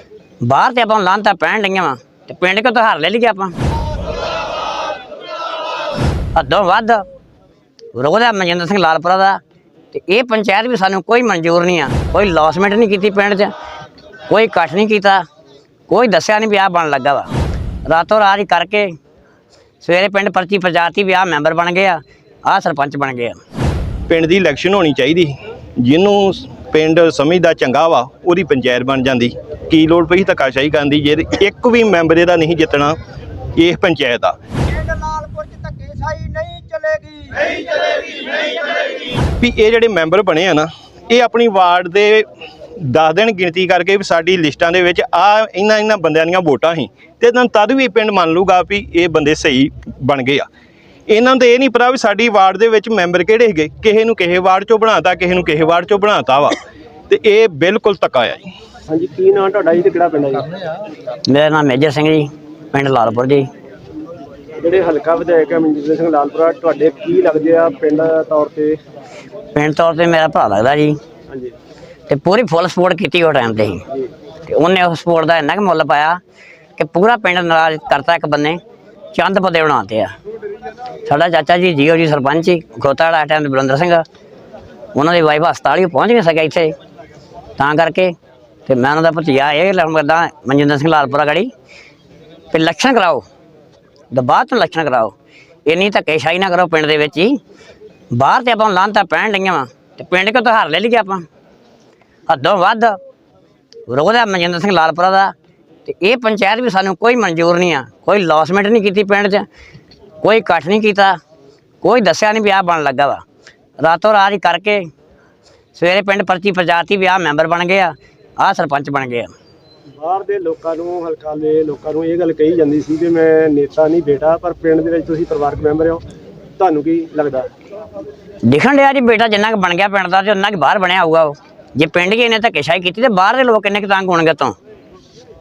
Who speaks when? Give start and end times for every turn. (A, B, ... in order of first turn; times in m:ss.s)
0:00.4-0:03.5 A
0:06.4-0:07.0 A
0:08.0-0:09.4 A
0:09.9-0:13.5 A
0:14.3-0:15.2 A
0:15.9-0:17.3 A
0:17.9-0:18.9 A
0:19.8-0:23.4 A
0:24.1-0:33.0 B
0:33.6-0:34.4 B
0:34.7-0:38.2 C
0:39.4-0:42.2 B
0:42.8-0:50.5 B
0:51.1-0:56.6 B
0:57.1-0:58.5 B
0:58.9-1:00.5 C
1:01.3-1:03.5 A
1:04.6-1:08.8 C
1:09.5-1:11.0 A
1:12.1-1:13.8 A
1:14.5-1:16.2 A
1:16.8-1:18.6 A
1:19.1-1:20.1 A
1:21.0-1:24.0 A
1:24.9-1:26.7 A
1:27.6-1:28.1 A
1:28.7-1:31.5 A
1:32.5-1:33.2 A
1:34.1-1:35.1 A
1:35.7-1:37.4 A
1:38.1-1:41.2 A
1:42.3-1:43.0 A
1:43.9-1:45.3 A
1:45.9-1:49.4 A
1:50.2-1:51.2 A
1:51.8-1:53.2 A
1:53.8-1:54.9 A
1:55.8-1:59.3 A
2:00.0-2:06.0 C
2:06.6-2:07.5 C
2:08.4-2:14.6 A